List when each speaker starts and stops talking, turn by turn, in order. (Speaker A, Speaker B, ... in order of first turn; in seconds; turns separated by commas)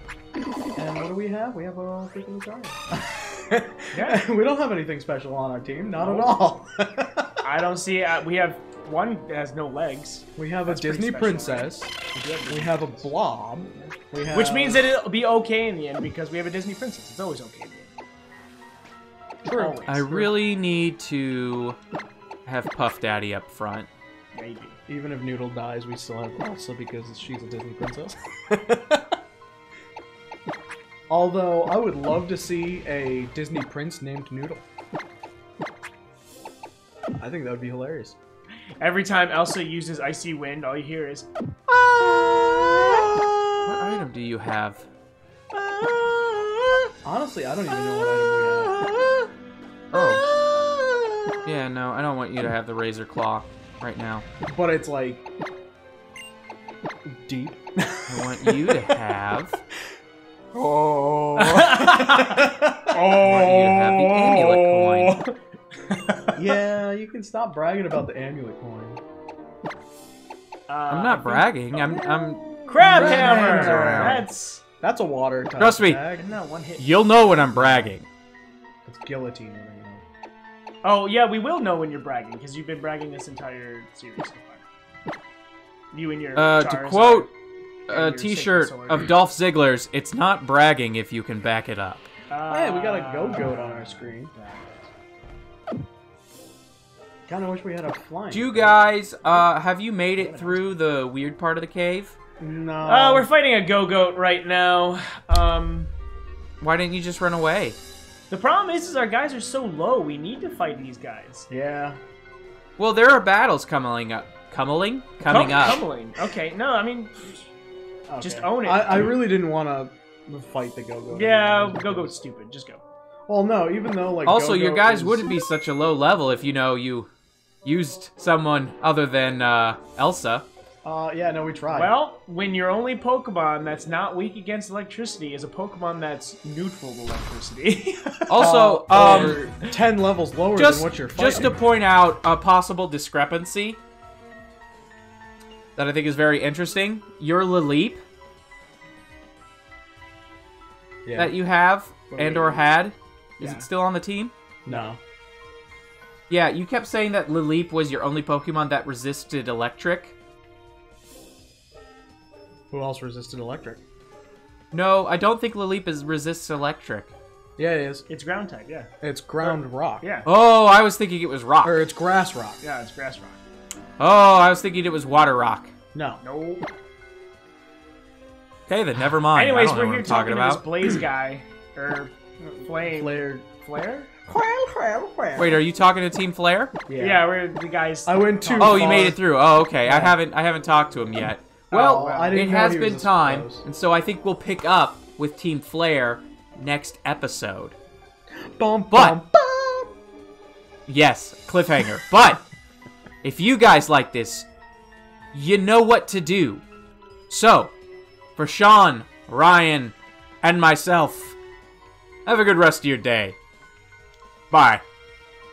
Speaker A: 0.8-7.4, Speaker B: 3.9-4.2, Speaker B: 5.9-6.3, Speaker B: 7.4-13.1, Speaker A: 10.3-11.9, Speaker A: 12.5-14.8, Speaker B: 13.7-17.9, Speaker A: 19.4-20.3, Speaker B: 19.5-20.2, Speaker C: 19.9-21.8, Speaker C: 22.4-23.9, Speaker B: 24.3-24.8, Speaker A: 24.9-29.0, Speaker A: 31.1-34.6, Speaker A: 37.2-38.1, Speaker B: 38.8-41.3, Speaker B: 42.4-43.0, Speaker C: 43.6-44.9, Speaker B: 46.1-46.6, Speaker A: 47.0-48.9, Speaker C: 49.9-50.2, Speaker B: 50.6-51.0, Speaker C: 51.4-54.2, Speaker A: 54.5-55.2, Speaker A: 57.0-58.8, Speaker C: 58.1-59.6, Speaker A: 60.5-63.0, Speaker B: 61.4-66.4, Speaker C: 63.1-65.2, Speaker A: 66.3-69.0, Speaker B: 70.7-71.5, Speaker C: 70.9-74.2, Speaker A: 71.7-74.2, Speaker B: 72.7-74.6, Speaker A: 74.8-76.3, Speaker C: 75.6-76.0, Speaker B: 76.1-77.1, Speaker C: 76.8-78.0, Speaker A: 77.3-77.9, Speaker A: 78.8-80.0, Speaker B: 80.8-84.6, Speaker B: 85.9-87.3, Speaker C: 86.3-87.3, Speaker C: 87.9-92.1, Speaker B: 87.9-89.1, Speaker B: 92.3-94.9, Speaker A: 92.5-94.3, Speaker A: 97.3-98.8, Speaker C: 98.3-102.2, Speaker B: 100.2-100.6, Speaker A: 102.4-103.3, Speaker B: 102.8-105.9, Speaker C: 106.6-107.8, Speaker B: 108.3-111.5, Speaker A: 111.5-112.0, Speaker C: 112.8-115.8, Speaker B: 115.2-117.4, Speaker A: 118.1-122.2, Speaker B: 118.2-119.2, Speaker B: 121.1-122.8, Speaker A: 123.3-125.4, Speaker C: 124.2-127.1, Speaker C: 127.6-130.4, Speaker A: 130.8-131.9, Speaker B: 131.7-139.7, Speaker C: 138.3-139.4, Speaker A: 138.4-141.6, Speaker C: 140.6-143.8, Speaker C: 145.8-148.0, Speaker A: 151.1-151.3, Speaker C: 151.2-154.3, Speaker B: 152.1-152.6, Speaker B: 153.4-153.7, Speaker A: 154.7-155.0, Speaker C: 156.3-160.1, Speaker A: 162.7-163.8, Speaker C: 164.7-167.1, Speaker A: 167.6-168.0, Speaker B: 168.1-168.9, Speaker A: 169.0-170.1, Speaker B: 169.4-170.3, Speaker C: 170.2-171.8, Speaker A: 171.6-172.6, Speaker B: 172.6-173.4, Speaker C: 174.0-175.7, Speaker A: 175.9-176.2, Speaker B: 176.2-176.6, Speaker C: 178.7-180.6, Speaker B: 179.3-182.1, Speaker A: 182.4-183.4, Speaker B: 182.6-184.1, Speaker A: 184.3-185.6, Speaker C: 185.4-186.7, Speaker A: 186.9-187.2, Speaker B: 187.0-189.1, Speaker A: 188.1-189.2, Speaker C: 188.6-197.7, Speaker A: 189.8-190.2, Speaker A: 191.7-193.6, Speaker B: 191.9-192.3, Speaker A: 198.6-199.9, Speaker C: 198.9-199.2, Speaker C: 200.9-202.4, Speaker C: 203.2-204.4, Speaker C: 205.3-206.6, Speaker C: 207.3-207.7, Speaker C: 208.4-211.3, Speaker C: 212.2-213.3, Speaker C: 214.5-214.8